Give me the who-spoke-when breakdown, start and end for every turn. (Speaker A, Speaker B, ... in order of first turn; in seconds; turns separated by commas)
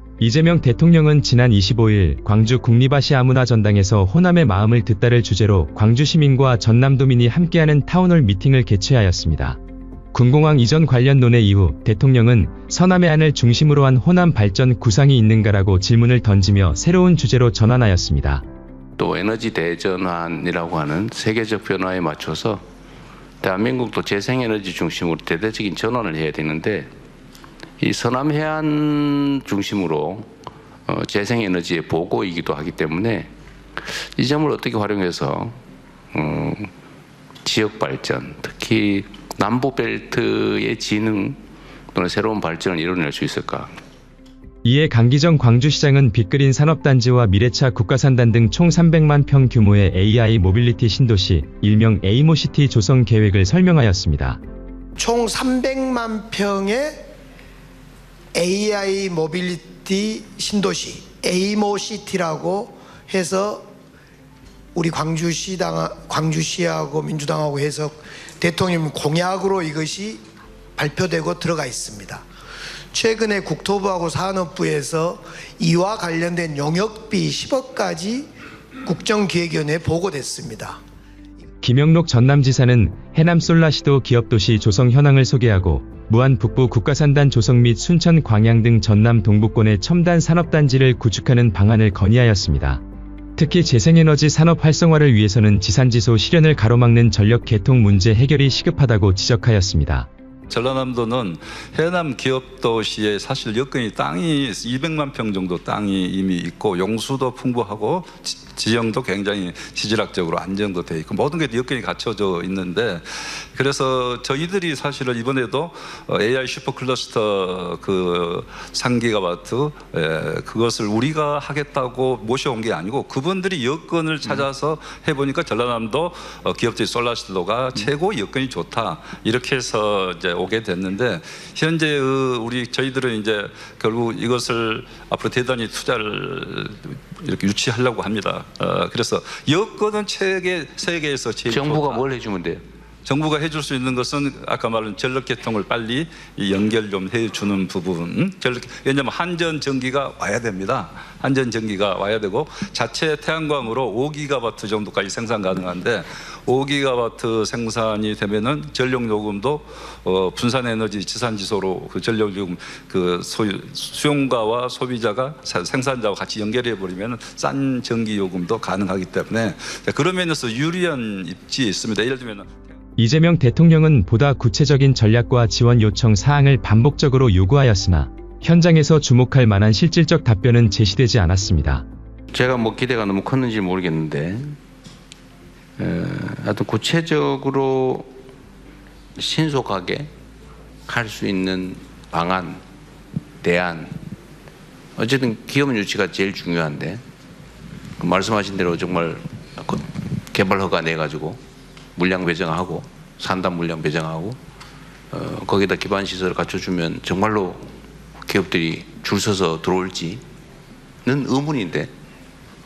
Speaker A: 0.2-9.6, Speaker A: 10.1-18.4, Speaker B: 19.0-22.6, Speaker B: 23.4-26.9, Speaker B: 27.8-30.3, Speaker B: 30.9-35.6, Speaker B: 36.1-36.7, Speaker B: 37.4-41.4, Speaker B: 41.9-43.7, Speaker A: 44.6-54.4, Speaker C: 55.0-57.0, Speaker C: 58.3-63.7, Speaker C: 64.7-70.2, Speaker C: 70.8-72.2, Speaker C: 72.9-78.3, Speaker C: 78.8-80.8, Speaker A: 81.6-92.8, Speaker A: 93.3-100.1, Speaker D: 100.5-142.1, Speaker B: 141.5-142.6, Speaker D: 143.0-172.6, Speaker A: 173.0-181.8, Speaker B: 182.3-184.6, Speaker B: 185.8-188.1, Speaker B: 189.2-190.1, Speaker B: 190.8-192.6, Speaker B: 193.4-193.9, Speaker B: 194.9-197.0, Speaker B: 198.0-201.4, Speaker B: 201.9-204.4, Speaker B: 205.1-207.7, Speaker B: 208.2-210.2, Speaker B: 211.0-211.9